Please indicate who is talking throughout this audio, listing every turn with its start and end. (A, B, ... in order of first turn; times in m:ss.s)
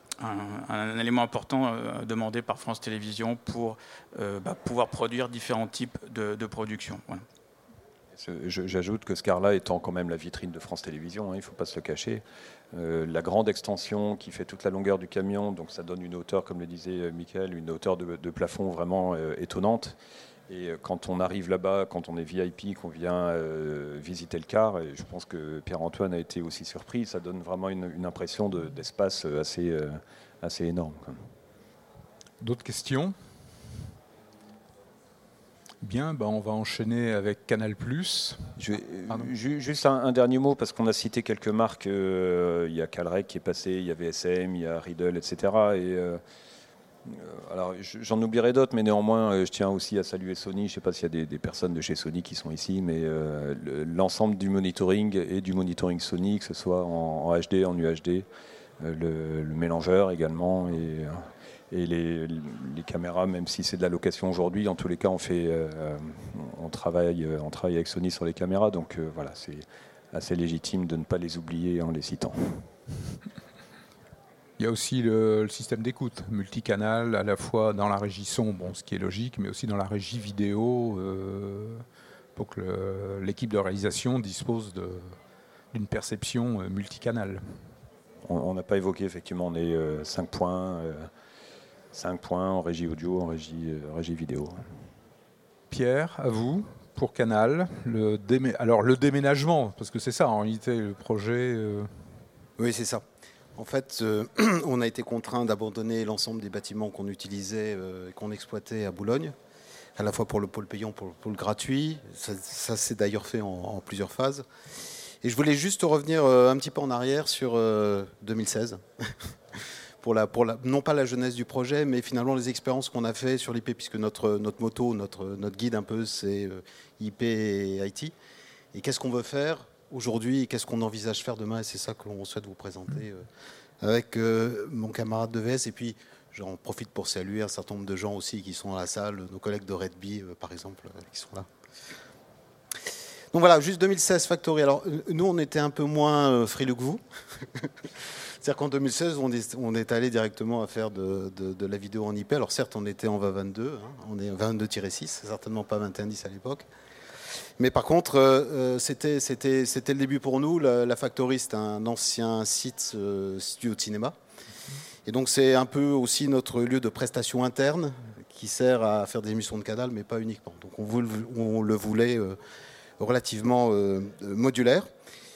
0:00.2-0:07.2 A
0:08.2-0:20.0 B
0:20.5-0:31.2 B
0:32.4-0:33.1 C
0:35.8-0:38.6 C
0:38.6-0:46.2 B
0:47.0-0:58.2 B
0:58.8-1:12.7 B
1:14.6-1:21.8 C
1:22.4-1:25.2 C
1:25.7-1:27.6 C
1:28.2-1:31.1 B
1:31.9-1:34.6 B
1:35.7-1:41.9 C
1:42.6-1:43.0 D
1:43.6-1:49.3 D
1:50.0-1:54.4 D
1:55.2-1:58.8 D
2:00.0-2:08.1 D
2:08.7-2:13.2 D
2:13.8-2:21.5 D
2:23.3-2:27.9 D
2:28.4-2:36.7 D
2:37.6-2:44.2 D
2:45.0-2:52.4 D
2:53.0-2:54.9 D